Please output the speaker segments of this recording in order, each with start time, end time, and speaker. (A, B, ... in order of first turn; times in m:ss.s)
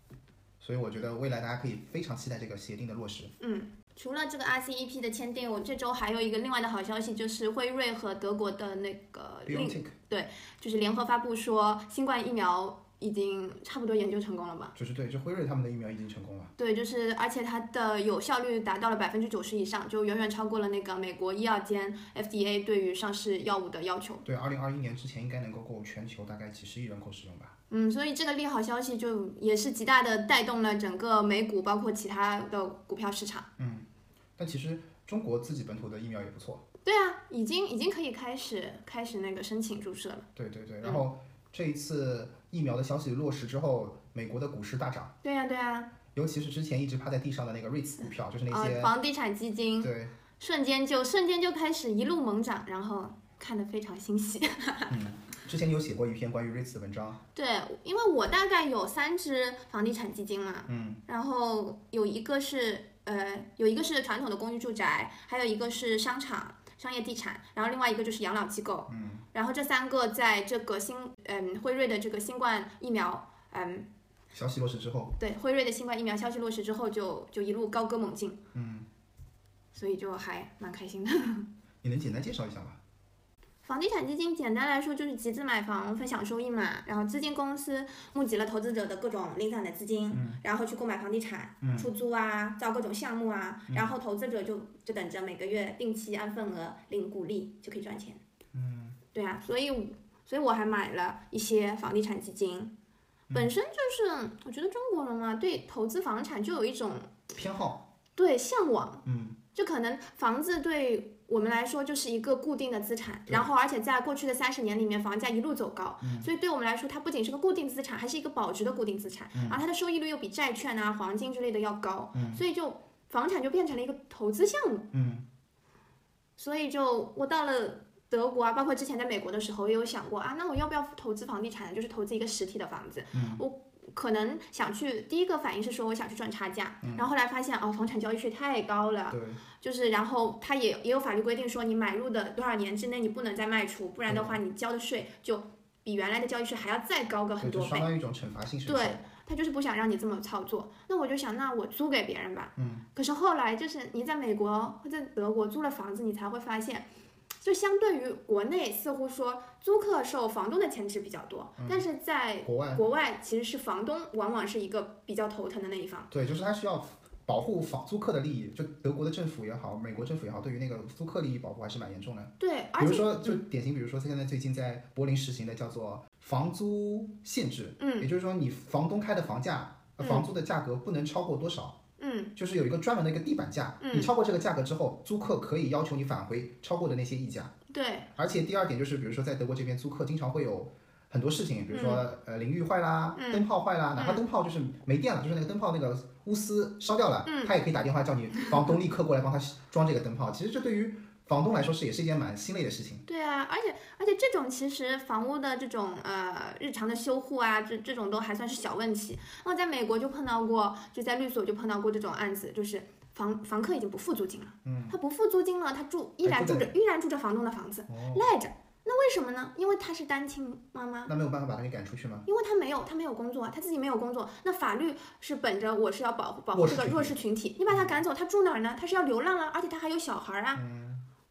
0:00.6-0:03.3 A
0:03.4-0:14.7 B
0:09.5-0:09.9 A
0:14.8-0:16.5 A
0:16.6-0:24.2 B
0:24.3-0:27.6 A
0:27.7-0:33.5 B
0:33.6-0:33.9 A
0:34.4-0:36.6 A
0:36.8-0:40.3 B
0:40.4-0:45.1 A
0:45.2-0:45.9 B
0:46.1-0:48.9 A
0:48.0-0:55.0 B
0:49.8-0:50.1 A
0:54.9-0:57.2 A
0:57.4-1:13.9 B
1:00.7-1:01.0 A
1:08.9-1:09.3 A
1:14.3-1:15.2 A
1:15.2-1:18.4 B
1:18.5-1:18.9 A
1:19.7-1:21.5 B
1:21.8-1:22.8 A
1:23.6-1:38.2 B
1:30.1-1:30.4 A
1:31.6-1:31.9 A
1:38.5-1:39.0 A
1:39.1-1:42.7 B
1:43.3-1:47.2 B
1:47.3-1:47.8 A
1:48.2-2:04.9 B
1:49.0-1:49.4 A
1:56.0-1:56.3 A
1:59.3-1:59.6 A
2:02.1-2:02.4 A
2:04.9-2:05.2 A
2:06.4-2:27.9 B
2:13.1-2:13.4 A
2:16.8-2:17.1 A
2:19.1-2:19.4 A
2:24.1-2:24.4 A
2:27.4-2:29.0 A
2:28.7-2:36.9 B
2:32.6-2:32.9 A
2:37.4-2:46.1 B
2:41.6-2:41.9 A
2:42.4-2:42.8 A
2:46.1-3:01.8 A
2:52.4-2:53.3 B
2:57.8-2:58.1 B
3:00.0-3:00.3 B
3:02.0-3:02.3 B
3:02.4-3:07.5 A
3:03.8-3:04.1 B
3:07.7-3:08.1 B
3:08.2-3:23.1 A
3:11.7-3:12.0 B
3:13.2-3:13.5 B
3:14.0-3:14.2 B
3:17.3-3:17.5 B
3:23.1-3:41.1 B
3:34.6-3:35.0 A
3:36.2-3:36.7 A
3:37.9-3:38.3 A
3:41.1-3:42.3 A
3:42.3-3:50.6 B
3:46.5-3:47.2 A
3:47.7-3:48.0 A
3:50.5-3:51.1 A